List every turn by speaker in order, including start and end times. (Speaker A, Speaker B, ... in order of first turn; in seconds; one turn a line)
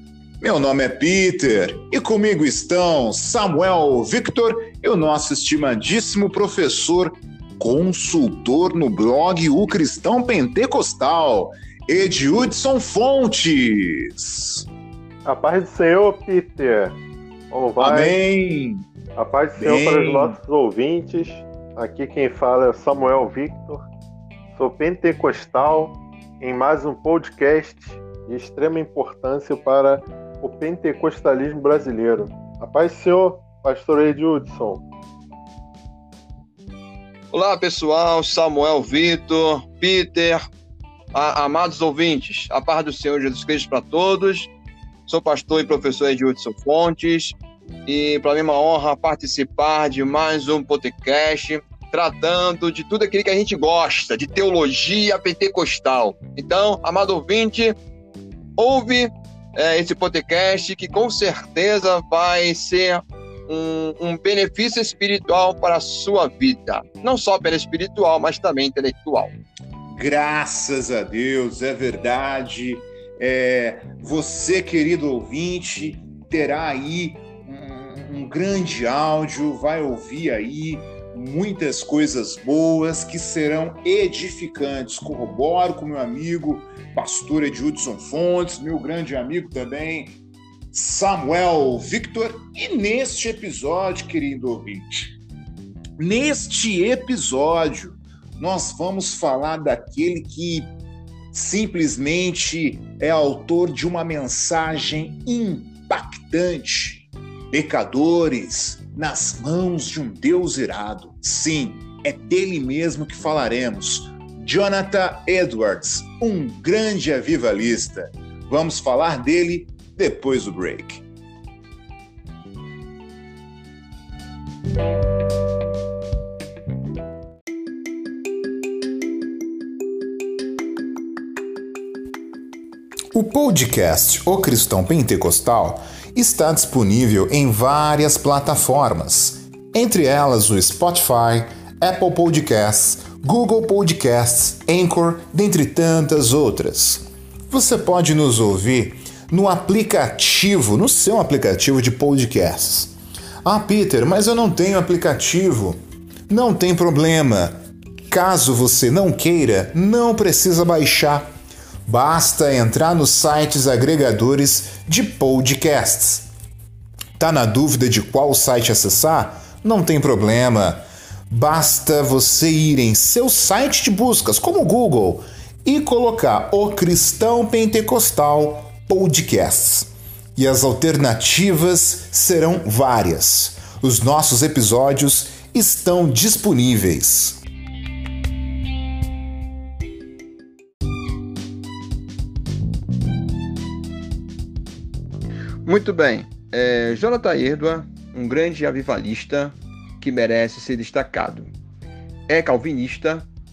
Speaker A: 0.4-14.7
Speaker B: 15.2-17.0
Speaker B: 17.5-18.1
Speaker A: 17.8-18.9
Speaker B: 19.2-23.9
Speaker A: 19.6-20.4
Speaker B: 24.5-34.8
Speaker C: 37.3-40.4
Speaker C: 41.1-44.5
Speaker C: 45.1-47.4
Speaker C: 47.9-57.8
Speaker C: 58.6-69.3
Speaker A: 69.9-90.2
Speaker A: 90.7-95.1
Speaker A: 96.0-100.7
Speaker A: 101.3-121.0
Speaker A: 133.1-155.8
Speaker A: 156.3-157.6
Speaker A: 158.1-161.3
Speaker A: 161.9-166.3
Speaker A: 167.2-187.4
Speaker C: 195.7-201.5
Speaker C: 202.3-203.2